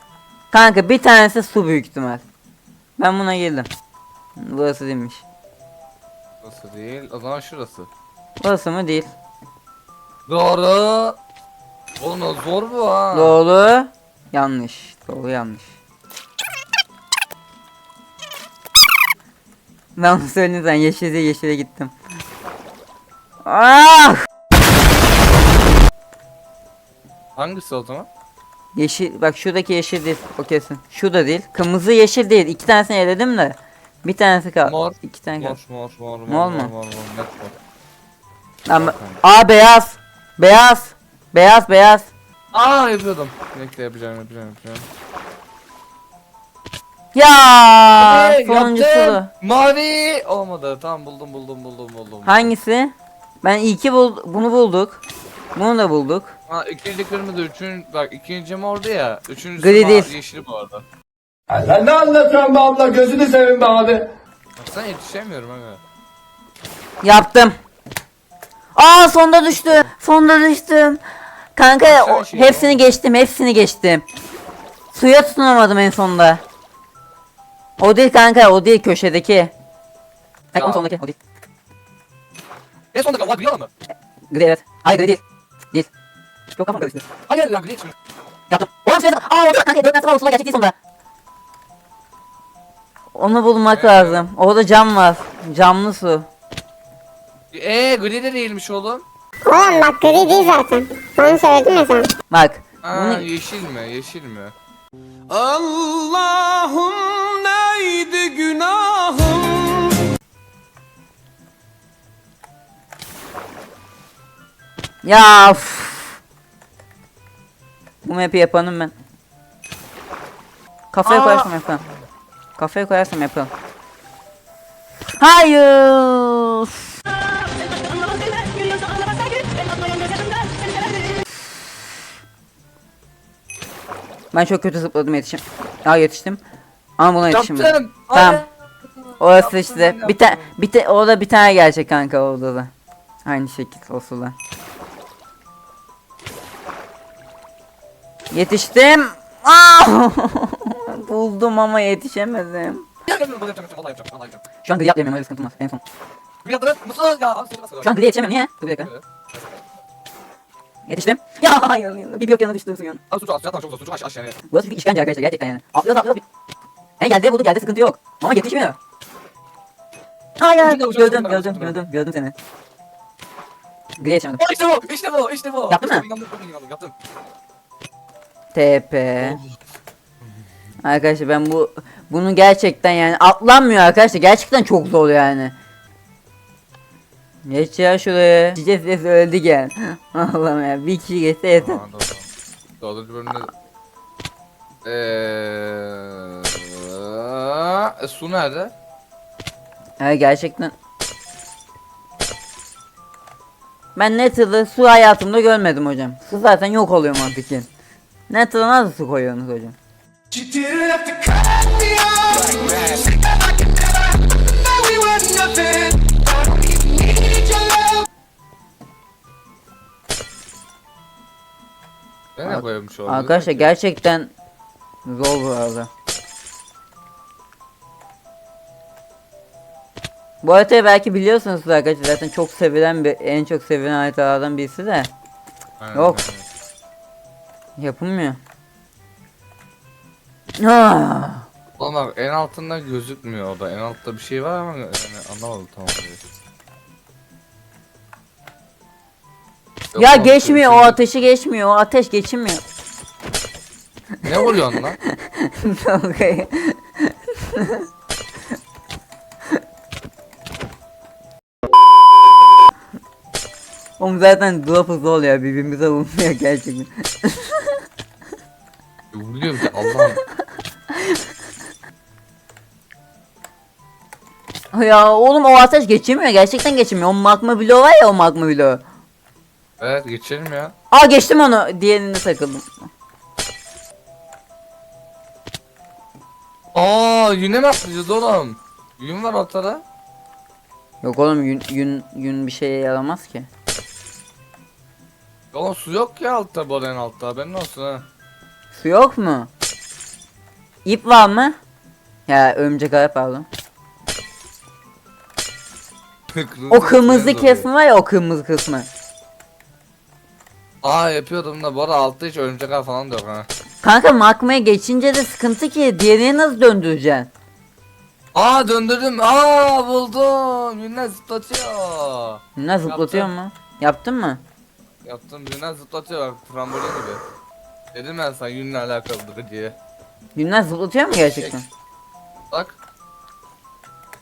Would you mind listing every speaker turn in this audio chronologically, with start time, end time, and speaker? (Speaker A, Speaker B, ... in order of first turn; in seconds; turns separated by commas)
Speaker A: 0.5-2.2, Speaker A: 3.0-3.7, Speaker A: 4.4-5.2, Speaker B: 6.4-7.9, Speaker A: 8.4-9.1, Speaker B: 10.3-11.2, Speaker B: 12.0-13.4, Speaker A: 13.1-15.8, Speaker A: 20.0-21.9, Speaker A: 23.4-24.2, Speaker B: 27.4-28.1, Speaker A: 28.8-35.6, Speaker B: 34.6-37.5, Speaker A: 36.3-36.7, Speaker A: 38.7-42.1, Speaker B: 38.8-39.2, Speaker B: 42.5-44.9, Speaker A: 47.1-49.3, Speaker B: 48.0-52.5, Speaker A: 52.2-55.0, Speaker A: 55.5-56.4, Speaker B: 56.5-60.9, Speaker A: 59.6-60.1, Speaker C: 61.5-64.1, Speaker B: 64.6-65.8, Speaker A: 67.0-67.5, Speaker A: 68.8-71.0, Speaker A: 71.6-74.0, Speaker B: 71.8-72.8, Speaker A: 74.9-76.4, Speaker A: 77.8-79.5, Speaker A: 80.5-81.2, Speaker B: 80.5-80.9, Speaker B: 82.9-83.7, Speaker A: 84.3-85.2, Speaker A: 86.6-87.0, Speaker B: 87.3-88.0, Speaker A: 88.5-90.7, Speaker A: 93.2-96.3, Speaker B: 93.7-94.2, Speaker B: 97.5-99.0, Speaker D: 99.4-102.1, Speaker A: 102.3-103.3, Speaker B: 102.8-104.5, Speaker E: 105.3-109.9, Speaker A: 115.0-116.2, Speaker A: 118.0-118.9, Speaker A: 120.9-121.8, Speaker B: 121.1-121.5, Speaker A: 122.6-123.5, Speaker A: 125.2-126.8, Speaker A: 134.3-136.4, Speaker A: 137.0-138.4, Speaker B: 137.3-138.5, Speaker B: 139.1-140.5, Speaker A: 139.2-142.7, Speaker A: 143.2-144.4, Speaker A: 148.3-152.9, Speaker B: 153.1-154.4, Speaker A: 154.6-155.8, Speaker B: 156.4-158.1, Speaker A: 157.8-158.9, Speaker B: 158.7-159.6, Speaker A: 160.9-163.0, Speaker B: 163.1-164.4, Speaker A: 164.5-166.2, Speaker A: 167.0-168.8, Speaker A: 170.4-172.3, Speaker B: 170.6-171.8, Speaker A: 174.0-174.4, Speaker B: 174.4-176.9, Speaker A: 175.7-176.1, Speaker A: 178.5-179.4, Speaker B: 179.2-179.5, Speaker A: 180.8-185.6, Speaker A: 187.5-191.8, Speaker B: 191.6-192.3, Speaker B: 192.8-193.5, Speaker B: 194.8-198.7, Speaker A: 200.0-200.7, Speaker A: 204.0-207.7, Speaker A: 208.3-209.8, Speaker E: 210.3-218.1, Speaker B: 222.4-223.7, Speaker A: 222.4-224.3, Speaker A: 225.1-225.9, Speaker A: 230.4-235.1, Speaker B: 235.8-236.5, Speaker A: 235.9-236.2, Speaker A: 237.8-238.4, Speaker A: 240.6-241.5, Speaker B: 241.8-246.2, Speaker B: 249.9-251.0, Speaker A: 250.0-252.6, Speaker B: 254.2-255.0, Speaker A: 254.3-257.9, Speaker A: 264.0-267.8, Speaker B: 269.1-270.2, Speaker A: 274.7-278.8, Speaker B: 279.8-280.8, Speaker A: 280.9-282.7, Speaker B: 286.7-289.8, Speaker A: 291.0-293.5, Speaker B: 295.5-298.1, Speaker A: 298.7-299.5, Speaker A: 300.9-301.6, Speaker A: 302.3-303.5, Speaker B: 306.3-307.7, Speaker A: 306.7-308.9, Speaker B: 310.8-313.5, Speaker A: 313.8-317.3, Speaker B: 318.3-323.3, Speaker A: 322.6-324.4, Speaker B: 325.0-327.2, Speaker B: 327.9-329.8, Speaker A: 330.4-331.7, Speaker B: 331.1-331.6, Speaker B: 332.5-332.8